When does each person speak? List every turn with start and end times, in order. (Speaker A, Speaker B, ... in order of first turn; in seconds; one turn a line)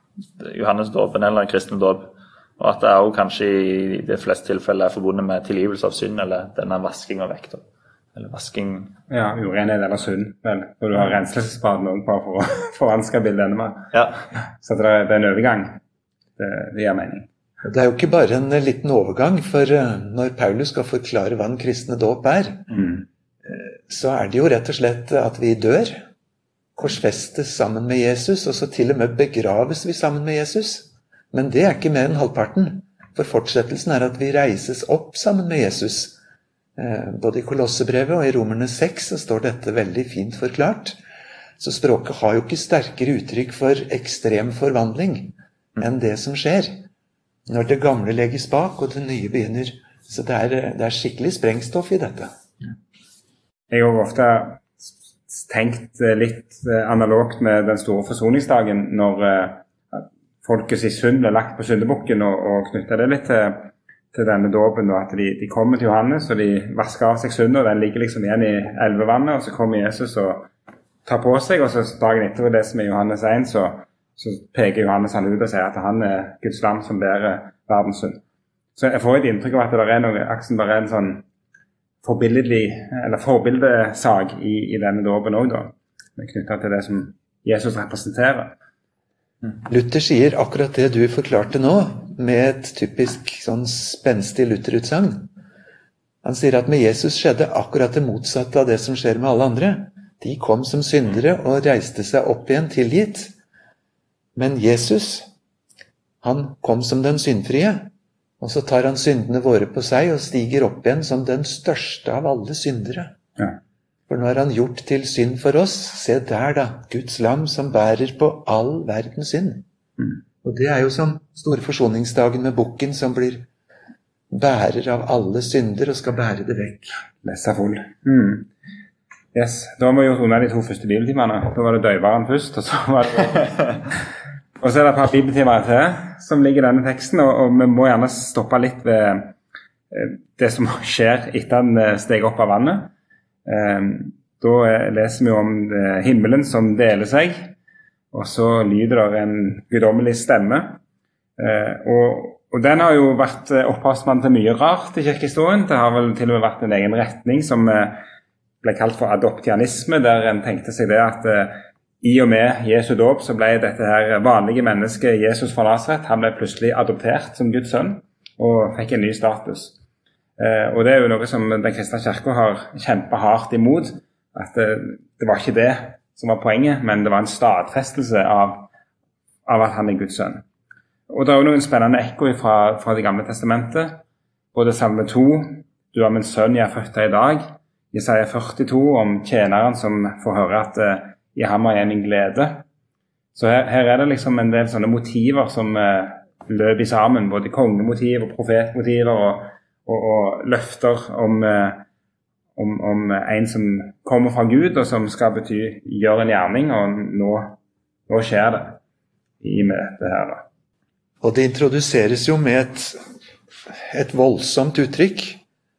Speaker A: 0.4-7.6
Speaker A: 8.2-9.0
Speaker B: 9.1-13.9
Speaker A: 13.9-14.2
Speaker B: 14.6-15.8
Speaker B: 16.4-17.3
Speaker C: 17.6-22.8
Speaker B: 22.7-23.0
Speaker C: 23.4-26.1
Speaker C: 26.8-36.2
Speaker C: 36.8-41.0
Speaker C: 41.6-46.8
Speaker C: 47.5-52.3
Speaker B: 53.7-70.5
Speaker B: 71.1-78.2
Speaker B: 78.8-81.2
Speaker B: 82.0-88.5
Speaker C: 89.6-95.3
Speaker C: 96.2-103.3
Speaker C: 104.4-105.3
Speaker C: 106.2-113.2
Speaker C: 114.1-119.7
Speaker C: 120.4-123.5
Speaker C: 124.3-127.0
Speaker B: 127.2-128.5
Speaker B: 129.3-133.8
Speaker B: 134.6-139.3
Speaker B: 139.9-142.9
Speaker B: 143.5-147.5
Speaker B: 148.1-150.8
Speaker B: 151.4-158.0
Speaker B: 158.6-169.8
Speaker B: 170.4-178.7
Speaker B: 179.5-180.4
Speaker B: 181.1-184.0
Speaker B: 184.5-192.6
Speaker B: 193.3-201.8
Speaker B: 202.6-207.6
Speaker B: 208.1-208.8
Speaker B: 209.4-210.4
Speaker C: 211.2-213.0
Speaker C: 213.7-215.4